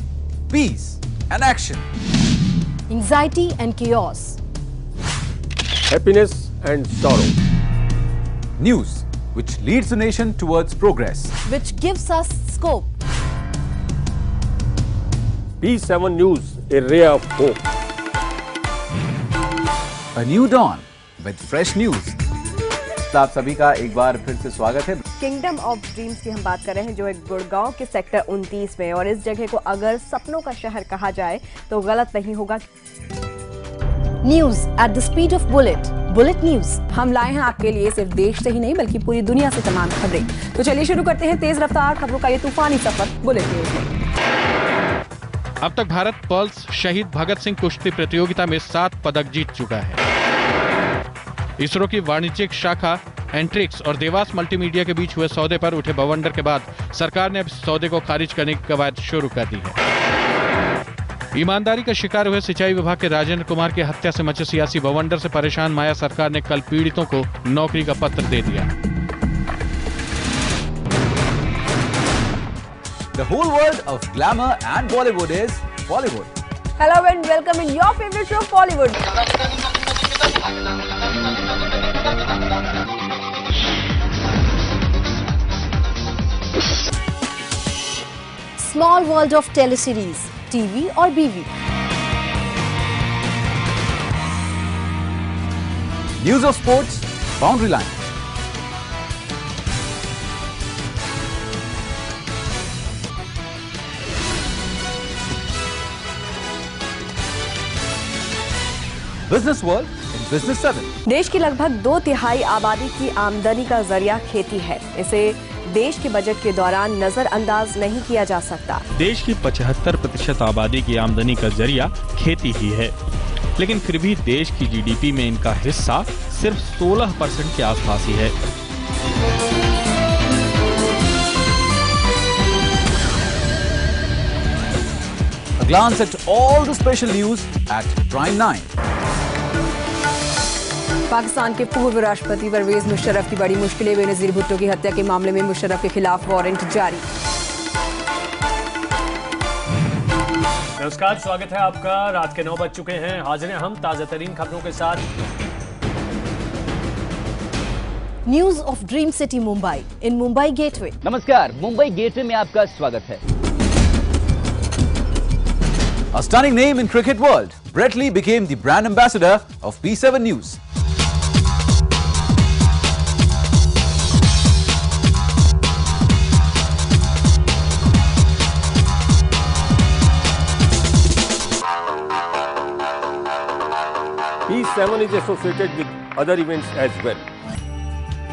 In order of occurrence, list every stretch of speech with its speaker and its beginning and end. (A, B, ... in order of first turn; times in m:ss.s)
0:00.5-0:01.9 A
0:02.9-0:04.4 B
0:05.9-0:07.4 C
0:08.6-0:11.3 A
0:11.4-0:12.9 B
0:15.6-0:17.6 C
0:20.2-0:22.2 A
0:23.1-0:25.0 A
0:25.2-0:32.6 D
0:34.2-0:36.8 B
0:36.9-0:43.9 E
0:45.6-0:50.0 F
0:51.6-0:59.8 F
1:01.3-1:08.7 F
1:13.1-1:16.3 A
1:16.8-1:19.0 E
1:28.6-1:31.5 B
1:36.2-1:38.0 A
1:49.3-1:50.9 A
1:51.1-1:58.8 D
1:59.0-2:03.0 G
2:03.6-2:08.3 G
2:15.6-2:18.7 A
2:21.1-2:27.1 E
2:30.8-2:35.0 H
2:38.3-2:41.0 B
2:41.0-2:43.2 I
2:46.1-2:50.6 A
3:04.5-3:07.3 C